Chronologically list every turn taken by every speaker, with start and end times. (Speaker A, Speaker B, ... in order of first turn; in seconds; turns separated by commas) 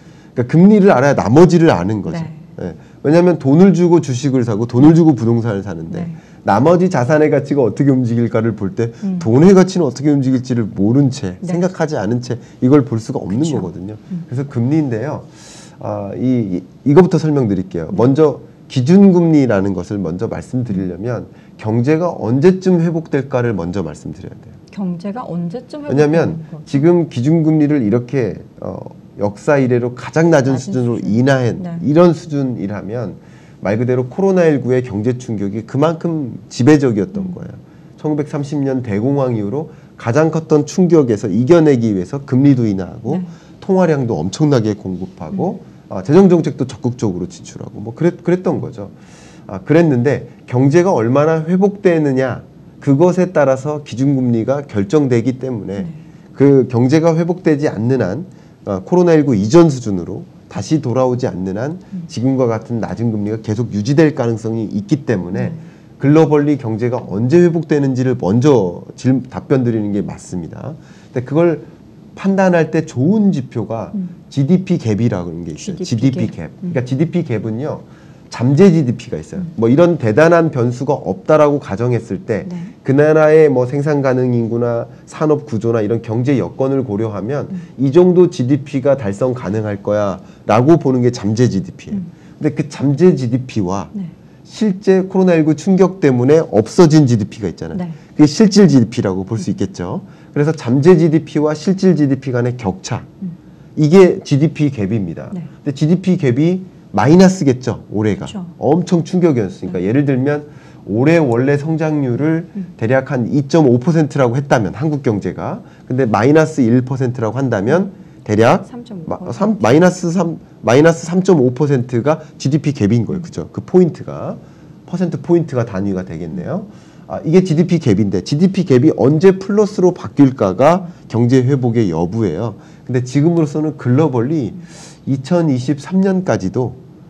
Speaker A: 0.3-24.5, Speaker B: 2.0-2.4, Speaker B: 5.9-6.2, Speaker B: 9.0-9.3, Speaker B: 13.3-14.2, Speaker B: 24.7-26.8, Speaker A: 25.9-49.0, Speaker B: 30.5-31.8, Speaker A: 49.5-93.9, Speaker B: 65.3-65.6, Speaker B: 75.6-76.8, Speaker B: 82.4-82.7, Speaker A: 94.4-103.1, Speaker A: 103.8-136.8, Speaker B: 108.2-108.5, Speaker B: 118.7-119.6